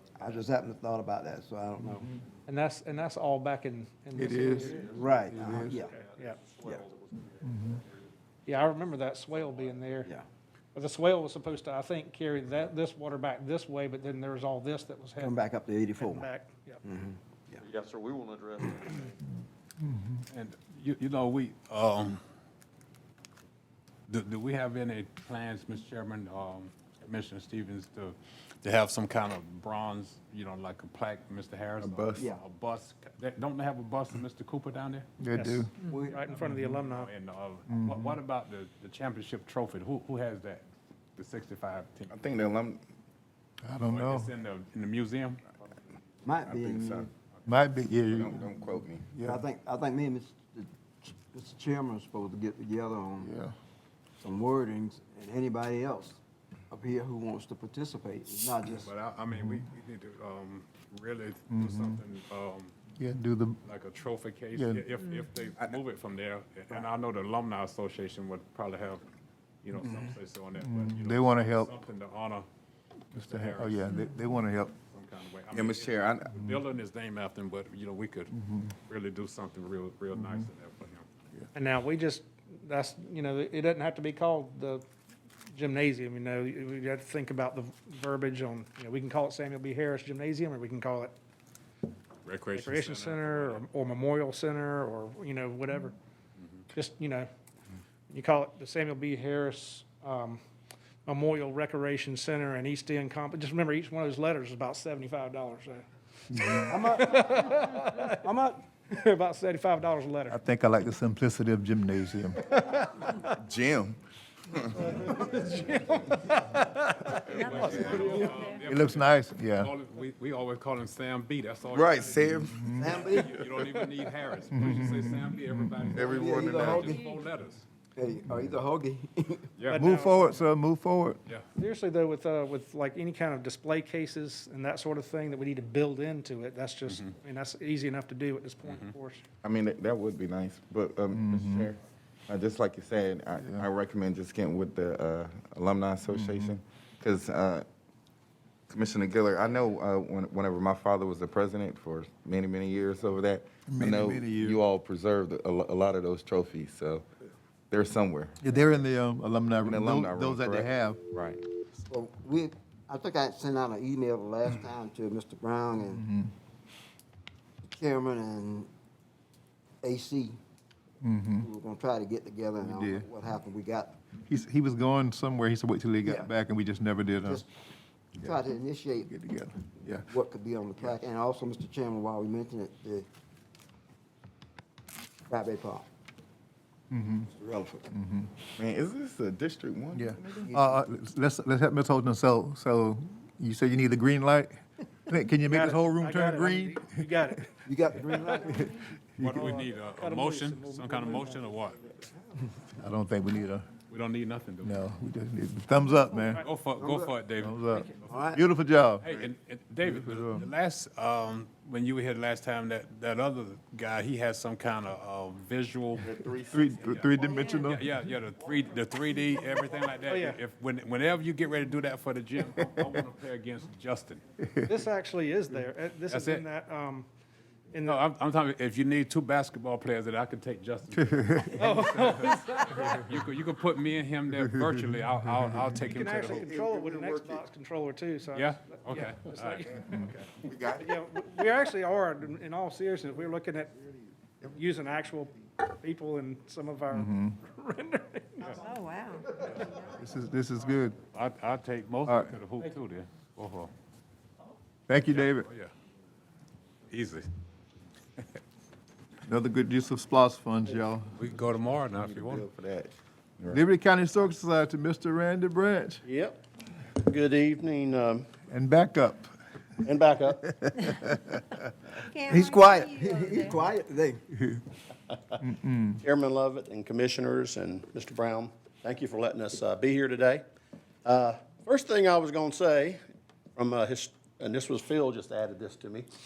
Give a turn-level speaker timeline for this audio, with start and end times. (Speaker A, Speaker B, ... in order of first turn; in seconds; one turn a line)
Speaker A: 0.2-2.1
Speaker B: 2.5-5.0
Speaker C: 4.2-5.8
Speaker D: 4.5-8.1
Speaker A: 4.9-6.0
Speaker B: 5.7-6.4
Speaker C: 7.4-7.8
Speaker B: 8.5-10.1
Speaker D: 9.4-9.8
Speaker B: 10.7-15.4
Speaker A: 15.2-16.3
Speaker B: 16.0-16.8
Speaker A: 16.8-17.6
Speaker D: 17.6-19.1
Speaker C: 19.9-20.1
Speaker E: 20.3-22.2
Speaker E: 24.1-35.1
Speaker F: 31.8-32.3
Speaker A: 32.2-32.4
Speaker C: 35.2-35.7
Speaker B: 35.3-37.1
Speaker A: 35.9-36.2
Speaker C: 36.5-36.7
Speaker E: 36.7-42.4
Speaker C: 37.7-38.2
Speaker F: 42.1-42.8
Speaker C: 43.6-44.3
Speaker E: 43.9-45.5
Speaker A: 46.2-47.1
Speaker F: 46.4-47.1
Speaker C: 47.5-49.4
Speaker F: 48.1-49.1
Speaker A: 49.2-53.3
Speaker C: 53.2-53.5
Speaker A: 54.2-56.2
Speaker A: 56.7-58.9
Speaker E: 58.5-62.7
Speaker C: 59.3-59.6
Speaker C: 61.5-62.0
Speaker C: 63.0-63.6
Speaker E: 63.6-69.0
Speaker C: 64.5-64.8
Speaker E: 69.6-72.5
Speaker C: 70.6-71.7
Speaker E: 73.1-73.8
Speaker C: 73.1-74.7
Speaker E: 74.9-81.0
Speaker F: 75.5-76.4
Speaker C: 78.3-78.7
Speaker C: 80.2-80.5
Speaker B: 81.5-84.8
Speaker B: 85.5-91.1
Speaker E: 92.2-93.7
Speaker B: 92.5-96.0
Speaker B: 96.7-97.3
Speaker B: 98.1-100.4
Speaker B: 101.1-108.2
Speaker A: 106.7-107.3
Speaker A: 108.2-108.6
Speaker B: 108.9-110.4
Speaker C: 110.3-112.5
Speaker F: 113.3-114.0
Speaker F: 114.5-114.9
Speaker B: 114.8-118.5
Speaker E: 117.1-127.7
Speaker F: 117.7-118.1
Speaker C: 118.6-119.7
Speaker F: 121.7-122.7
Speaker C: 122.5-122.9
Speaker A: 122.7-123.4
Speaker C: 124.5-125.9
Speaker F: 125.9-127.0
Speaker A: 126.0-127.0
Speaker A: 128.0-129.5
Speaker E: 129.6-129.9
Speaker B: 129.7-130.4
Speaker C: 129.7-131.2
Speaker B: 131.6-139.2
Speaker E: 136.9-137.1
Speaker E: 138.6-138.9
Speaker F: 139.4-147.7
Speaker C: 141.1-141.7
Speaker C: 143.4-143.7
Speaker C: 146.1-146.6
Speaker F: 148.7-157.1
Speaker C: 153.7-154.6
Speaker F: 157.7-158.8
Speaker C: 158.4-161.0
Speaker F: 159.6-161.4
Speaker A: 161.8-166.0
Speaker C: 165.9-166.3
Speaker A: 167.6-168.7
Speaker A: 169.8-170.4
Speaker C: 171.0-171.5
Speaker A: 171.4-174.0
Speaker C: 172.6-173.1
Speaker C: 174.3-177.4
Speaker A: 176.0-176.3
Speaker A: 178.2-179.1
Speaker C: 179.0-180.1
Speaker A: 180.1-183.1
Speaker A: 185.3-185.9
Speaker C: 186.9-187.3
Speaker A: 187.3-187.9
Speaker C: 187.9-188.3
Speaker F: 188.6-190.4
Speaker C: 189.9-197.0
Speaker A: 190.3-190.8
Speaker B: 195.5-197.6
Speaker A: 197.7-198.8
Speaker B: 198.1-198.7
Speaker C: 198.7-199.6
Speaker E: 199.2-201.8
Speaker B: 199.2-201.5
Speaker C: 202.8-203.7
Speaker E: 203.9-204.8
Speaker C: 204.6-206.4
Speaker E: 206.4-208.2
Speaker A: 206.8-207.2
Speaker C: 207.4-209.0
Speaker A: 208.0-208.4
Speaker E: 209.0-216.1
Speaker C: 209.8-210.5
Speaker F: 216.0-217.0
Speaker C: 216.5-217.9
Speaker E: 216.8-224.2
Speaker B: 220.1-220.4
Speaker C: 224.4-224.7
Speaker B: 224.7-227.1
Speaker E: 226.1-226.5
Speaker B: 227.7-228.0
Speaker E: 227.8-236.5
Speaker C: 231.0-231.8
Speaker B: 231.5-233.1
Speaker B: 235.8-240.2
Speaker F: 236.2-237.4
Speaker E: 238.3-240.2
Speaker F: 240.4-240.9
Speaker B: 240.7-243.8
Speaker B: 244.5-248.8
Speaker C: 246.9-247.4
Speaker D: 248.6-249.3
Speaker C: 249.9-251.0
Speaker E: 251.1-253.7
Speaker C: 252.1-252.4
Speaker C: 254.9-255.5
Speaker E: 255.1-255.7
Speaker E: 256.9-257.3
Speaker C: 259.3-261.1
Speaker E: 261.1-262.5
Speaker F: 261.9-263.6
Speaker C: 263.5-266.0
Speaker G: 266.1-266.4
Speaker G: 267.0-268.3
Speaker C: 268.5-269.3
Speaker G: 269.8-270.5
Speaker C: 270.4-271.6
Speaker D: 272.1-273.6
Speaker A: 272.2-274.2
Speaker C: 275.4-276.0
Speaker G: 276.0-280.4
Speaker G: 281.1-283.0
Speaker G: 283.6-286.1